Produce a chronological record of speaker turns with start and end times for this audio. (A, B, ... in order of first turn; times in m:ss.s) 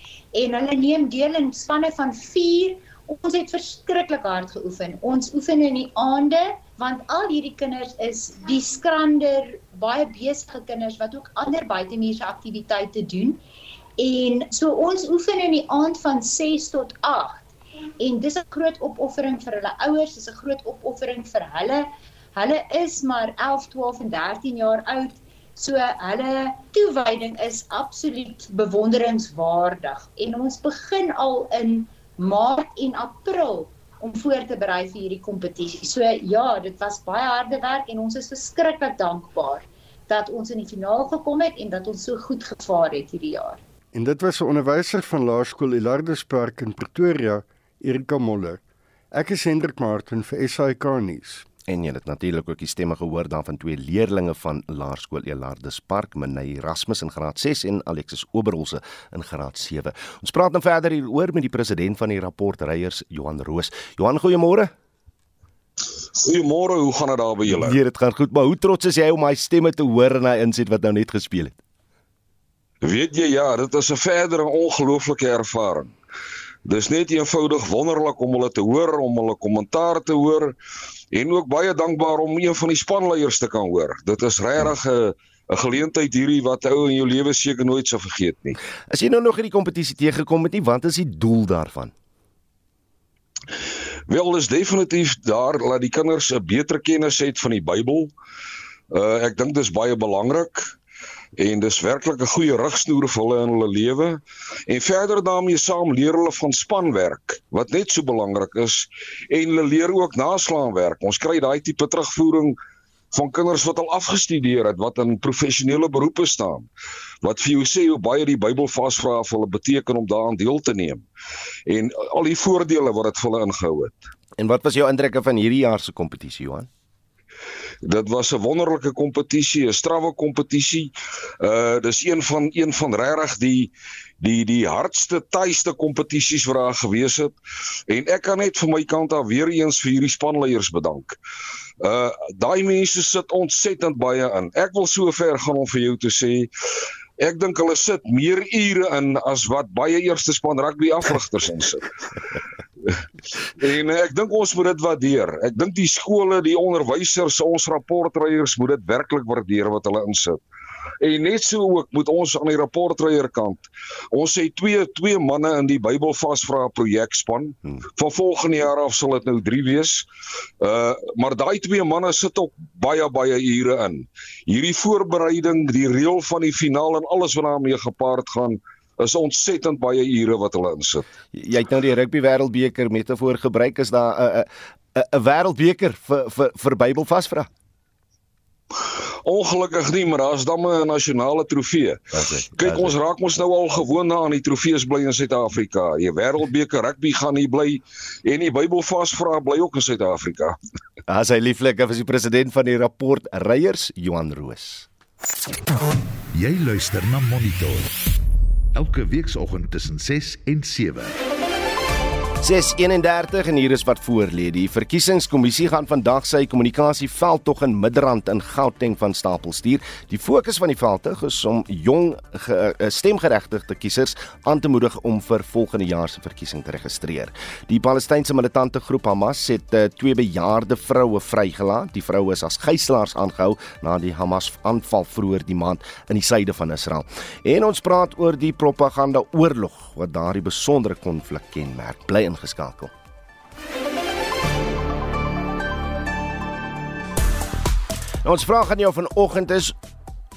0:00.3-0:13.4 A
0:14.0-0:17.5 A
0:18.0-0:43.6 A
0:43.9-0:48.6 B
0:49.1-0:51.4 B
0:51.7-1:04.7 C
1:06.2-1:07.8 D
1:07.5-1:11.6 C
1:12.8-1:15.9 D
1:16.7-1:20.5 D
1:21.1-1:28.6 D
1:28.9-1:31.9 C
1:34.1-1:38.1 D
1:38.9-1:40.6 D
1:41.4-1:52.5 D
1:53.1-1:56.6 D
1:57.2-2:01.0 D
2:01.7-2:04.0 D
2:04.4-2:06.7 C
2:07.8-2:13.7 D
2:14.2-2:17.3 D
2:17.9-2:21.2 D
2:21.8-2:26.5 D
2:27.2-2:31.9 D
2:33.6-2:40.4 D
2:41.0-2:50.0 D
2:50.6-3:01.0 D
3:01.3-3:07.5 C
3:09.2-3:20.6 D
3:12.1-3:12.9 C
3:21.1-3:24.9 C
3:26.3-3:27.9 E
3:28.7-3:31.1 E
3:32.4-4:02.9 C
4:08.2-4:09.8 C